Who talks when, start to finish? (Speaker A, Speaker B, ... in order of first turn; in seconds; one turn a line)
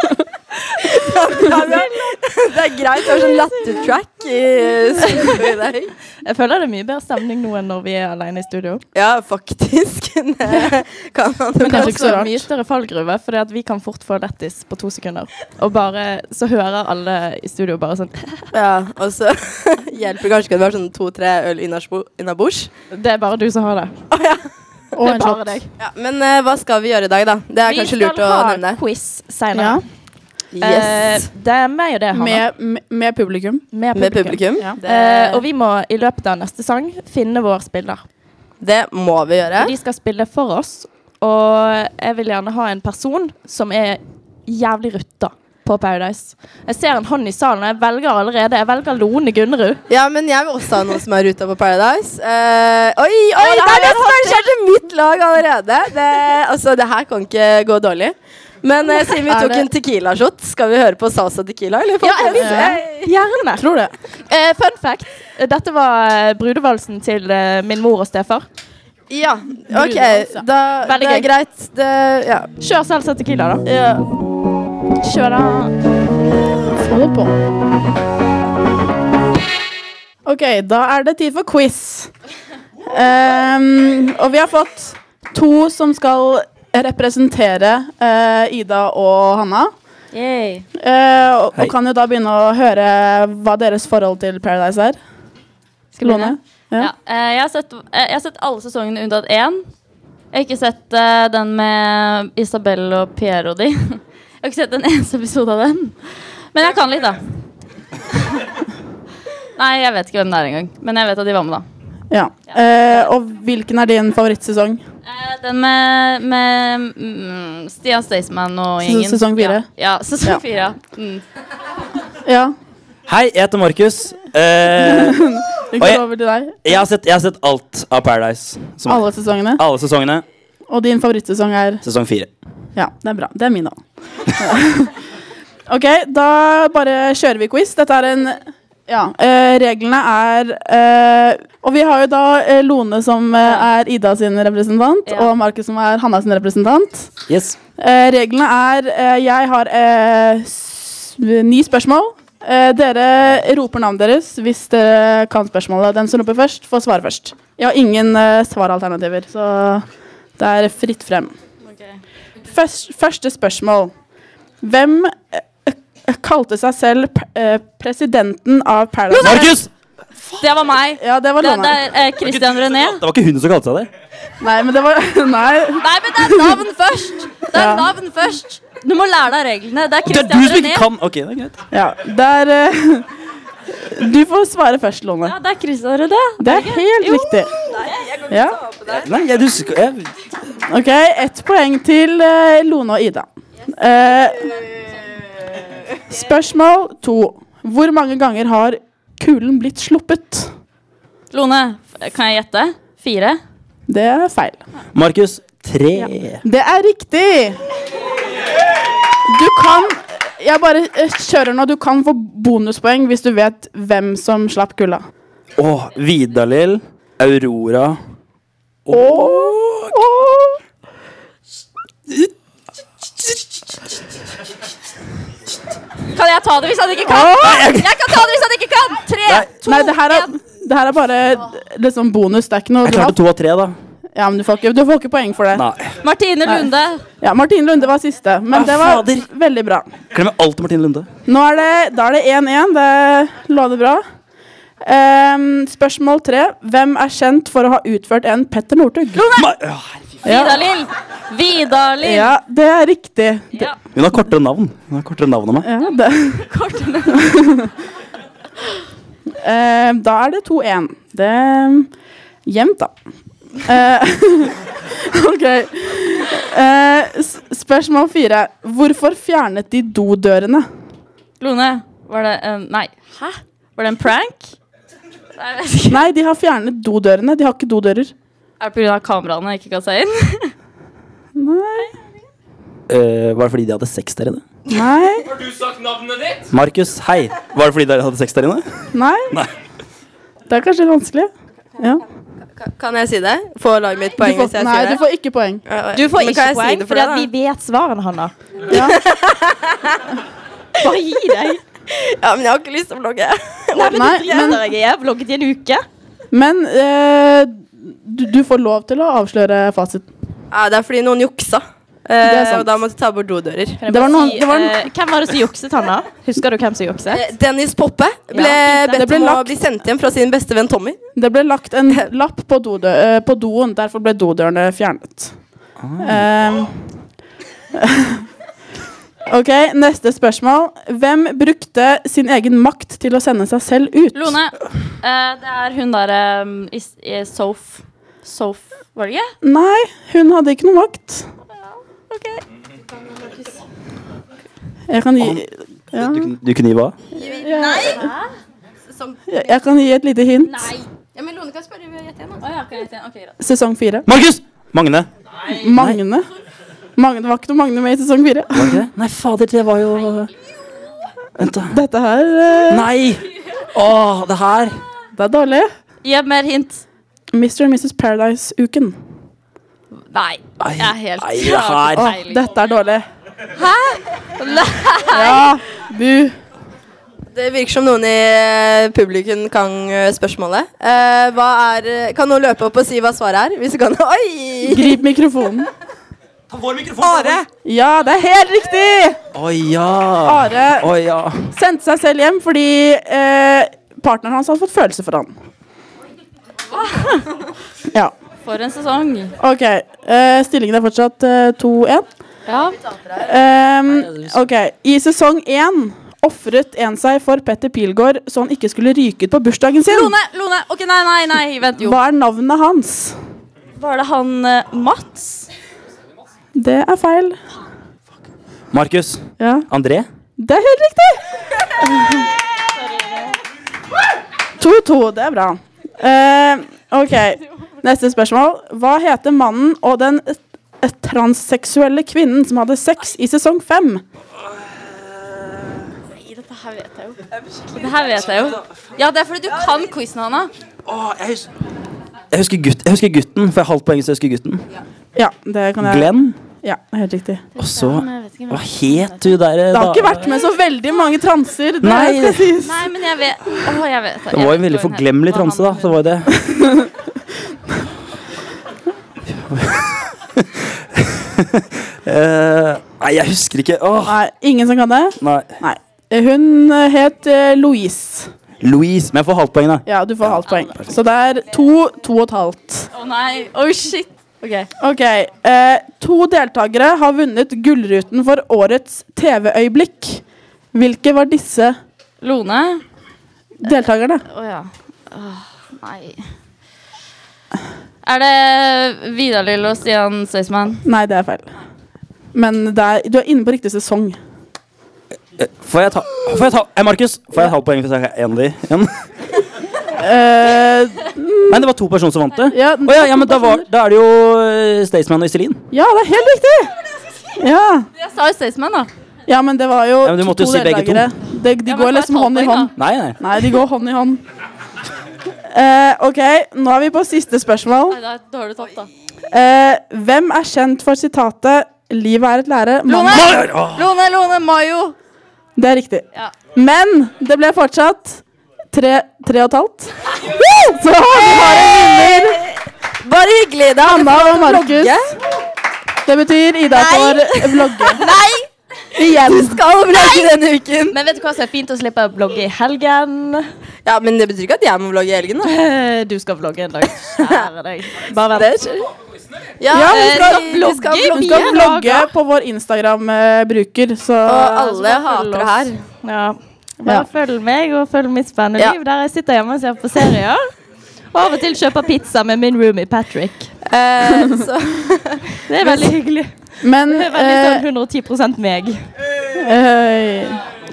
Speaker A: 0.8-5.9
Speaker B: 5.1-5.4
Speaker B: 6.2-8.8
Speaker A: 8.9-12.2
Speaker C: 11.6-12.4
Speaker B: 11.6-18.5
Speaker A: 18.5-22.7
Speaker B: 22.9-24.0
Speaker A: 24.1-24.4
Speaker C: 24.9-25.6
Speaker B: 25.0-25.7
Speaker A: 25.8-28.8
Speaker B: 27.6-29.8
Speaker C: 29.6-29.8
Speaker A: 30.5-31.3
Speaker B: 30.6-32.4
Speaker C: 32.1-33.7
Speaker B: 33.7-38.0
Speaker A: 33.9-35.5
Speaker A: 38.6-39.7
Speaker B: 39.6-49.8
Speaker A: 49.9-63.1
Speaker B: 53.4-54.5
Speaker C: 59.3-59.7
Speaker B: 62.0-63.6
Speaker C: 62.4-62.8
Speaker C: 63.6-63.9
Speaker B: 64.3-68.5
Speaker A: 69.1-72.5
Speaker C: 69.7-70.4
Speaker B: 70.8-71.3
Speaker B: 72.6-73.7
Speaker A: 73.7-74.0
Speaker B: 75.0-75.8
Speaker C: 76.8-77.3
Speaker C: 80.2-82.1
Speaker C: 82.9-89.7
Speaker D: 90.1-90.7
Speaker C: 90.8-95.0
Speaker D: 96.0-99.6
Speaker C: 96.0-96.9
Speaker D: 100.3-103.8
Speaker D: 104.4-105.9
Speaker D: 106.5-107.2
Speaker D: 109.6-111.6
Speaker C: 112.1-114.8
Speaker D: 115.1-121.2
Speaker C: 118.8-119.7
Speaker C: 122.2-122.5
Speaker E: 123.1-126.0
Speaker C: 124.8-126.9
Speaker E: 126.7-129.1
Speaker C: 128.9-129.6
Speaker E: 129.6-130.2
Speaker C: 130.7-131.8
Speaker E: 131.8-132.3
Speaker C: 132.8-133.8
Speaker C: 134.4-134.9
Speaker C: 135.7-147.1
Speaker E: 147.3-147.6
Speaker C: 147.8-159.8
Speaker C: 160.4-161.3
Speaker D: 161.7-162.0
Speaker C: 162.5-163.9
Speaker C: 164.6-169.6
Speaker D: 169.1-169.5
Speaker E: 169.2-169.7
Speaker D: 170.4-173.0
Speaker C: 171.0-171.8
Speaker E: 172.2-173.9
Speaker C: 174.4-176.6
Speaker D: 175.8-180.9
Speaker C: 177.5-177.9
Speaker E: 180.1-181.6
Speaker C: 181.7-183.1
Speaker C: 183.8-185.3
Speaker D: 185.2-187.3
Speaker C: 186.4-187.5
Speaker A: 187.8-189.1
Speaker C: 188.3-188.6
Speaker E: 188.9-190.1
Speaker C: 190.7-194.6
Speaker C: 196.1-200.5
Speaker D: 201.3-203.4
Speaker C: 203.9-204.6
Speaker E: 204.9-206.4
Speaker C: 206.0-207.6
Speaker C: 209.3-215.0
Speaker E: 215.6-218.0
Speaker E: 218.9-220.0
Speaker C: 218.9-220.6
Speaker D: 226.1-230.3
Speaker C: 227.1-227.7
Speaker E: 227.4-228.2
Speaker E: 229.3-229.5
Speaker C: 229.6-233.2
Speaker E: 232.8-233.8
Speaker C: 234.2-235.6
Speaker E: 235.6-236.0
Speaker D: 236.0-237.0
Speaker C: 237.2-239.9
Speaker E: 238.5-239.3
Speaker E: 240.1-241.1
Speaker C: 241.3-244.0
Speaker C: 244.8-249.3
Speaker D: 249.2-249.5
Speaker E: 249.4-250.2
Speaker C: 250.2-250.6
Speaker D: 250.2-252.3
Speaker C: 252.0-253.7
Speaker E: 253.9-255.7
Speaker C: 255.6-256.4
Speaker D: 256.5-257.2
Speaker C: 257.2-257.7
Speaker C: 259.4-261.9
Speaker C: 262.5-262.9
Speaker C: 263.6-270.7
Speaker D: 271.4-274.5
Speaker D: 275.4-276.0
Speaker C: 275.9-278.1
Speaker D: 278.6-280.5
Speaker C: 281.4-281.9
Speaker E: 282.9-284.4
Speaker C: 284.7-285.3
Speaker E: 286.5-288.7
Speaker C: 288.9-289.3
Speaker C: 290.5-292.0
Speaker A: 292.6-295.0
Speaker C: 294.2-295.6
Speaker A: 295.7-297.3
Speaker B: 295.9-298.3
Speaker C: 298.7-299.0
Speaker A: 298.7-300.0
Speaker B: 300.8-301.6
Speaker A: 301.9-304.4
Speaker B: 303.7-305.8
Speaker C: 303.9-304.6
Speaker C: 306.3-310.1
Speaker A: 310.5-313.8
Speaker C: 312.2-312.7
Speaker B: 313.8-317.2
Speaker C: 313.9-314.8
Speaker A: 317.1-321.0
Speaker B: 318.3-319.0
Speaker C: 318.9-319.5
Speaker C: 321.2-325.4
Speaker E: 325.8-326.2
Speaker C: 326.0-326.7
Speaker C: 327.8-328.2
Speaker C: 329.3-334.4
Speaker D: 334.1-334.5
Speaker D: 335.0-339.3
Speaker C: 339.4-341.3
Speaker C: 344.9-346.3
Speaker E: 345.9-347.0
Speaker A: 347.2-347.5
Speaker C: 347.2-348.1
Speaker B: 347.6-348.2
Speaker A: 348.9-349.2
Speaker C: 349.3-350.7
Speaker A: 351.1-352.4
Speaker D: 352.4-353.3
Speaker C: 353.4-354.1
Speaker E: 354.1-355.1
Speaker C: 355.5-356.3
Speaker E: 355.7-356.0
Speaker C: 357.0-358.8
Speaker E: 358.6-360.3
Speaker E: 361.4-361.8
Speaker C: 361.7-362.9
Speaker E: 362.7-364.8
Speaker C: 365.1-365.7
Speaker D: 366.0-366.8
Speaker C: 367.3-368.9
Speaker D: 370.1-372.4
Speaker E: 370.6-372.1
Speaker C: 371.9-373.1
Speaker D: 373.6-375.4
Speaker C: 375.1-376.4
Speaker A: 377.3-384.9
Speaker C: 384.7-385.7
Speaker E: 386.5-387.4
Speaker C: 387.6-389.2
Speaker E: 389.4-391.4
Speaker C: 390.2-390.9
Speaker C: 391.5-395.3
Speaker D: 396.9-397.2
Speaker D: 398.4-399.3
Speaker C: 399.4-402.1
Speaker D: 402.5-402.8
Speaker C: 403.2-410.1
Speaker D: 409.9-412.0
Speaker C: 411.8-413.2
Speaker D: 413.8-415.5
Speaker C: 416.6-417.4
Speaker E: 418.7-420.1
Speaker C: 419.4-419.7
Speaker C: 420.4-421.2
Speaker C: 421.8-422.3
Speaker C: 424.6-434.0
Speaker D: 436.3-437.1
Speaker D: 437.7-440.5
Speaker E: 440.9-441.5
Speaker E: 442.3-444.7
Speaker C: 445.2-447.4
Speaker E: 445.8-446.3
Speaker E: 447.6-450.3
Speaker D: 447.6-448.6
Speaker C: 449.7-452.9
Speaker E: 451.8-452.5
Speaker D: 452.7-455.9
Speaker E: 454.3-456.4
Speaker C: 456.5-456.9
Speaker E: 459.3-464.2
Speaker C: 464.1-468.3
Speaker E: 465.2-465.5
Speaker E: 468.6-470.4
Speaker C: 469.9-472.9
Speaker D: 472.9-474.6
Speaker C: 474.8-480.2
Speaker C: 480.7-481.8
Speaker D: 482.2-482.8
Speaker C: 483.6-484.2
Speaker D: 484.4-486.1
Speaker D: 488.1-490.8
Speaker C: 490.9-491.5
Speaker C: 492.4-494.2
Speaker E: 495.4-498.9
Speaker C: 500.0-501.6
Speaker E: 501.5-505.6
Speaker C: 502.5-503.7
Speaker C: 505.7-506.7
Speaker C: 507.4-507.9
Speaker D: 508.0-508.9
Speaker C: 509.3-514.2
Speaker E: 510.0-511.1
Speaker D: 511.7-512.7
Speaker E: 512.8-513.2
Speaker C: 515.5-518.0
Speaker D: 517.9-518.9
Speaker C: 519.3-523.4
Speaker D: 522.9-525.0
Speaker E: 523.1-523.9
Speaker C: 525.6-532.4
Speaker A: 531.1-532.5
Speaker A: 533.0-535.2
Speaker C: 533.8-535.0
Speaker C: 536.1-538.0
Speaker A: 536.8-537.2
Speaker B: 536.9-537.2
Speaker B: 537.9-538.4
Speaker A: 537.9-538.3
Speaker A: 539.0-541.0
Speaker C: 539.0-539.6
Speaker B: 540.9-543.5
Speaker A: 543.9-545.5
Speaker B: 545.5-548.5
Speaker A: 547.2-547.5
Speaker A: 548.3-548.9
Speaker A: 549.6-551.7
Speaker C: 549.7-550.4
Speaker B: 549.8-552.1
Speaker C: 551.1-554.6
Speaker A: 554.2-555.8
Speaker B: 554.7-560.5
Speaker B: 561.1-563.5
Speaker A: 563.7-565.9
Speaker B: 565.5-566.3
Speaker C: 566.6-567.6
Speaker B: 566.9-568.9
Speaker C: 569.4-570.4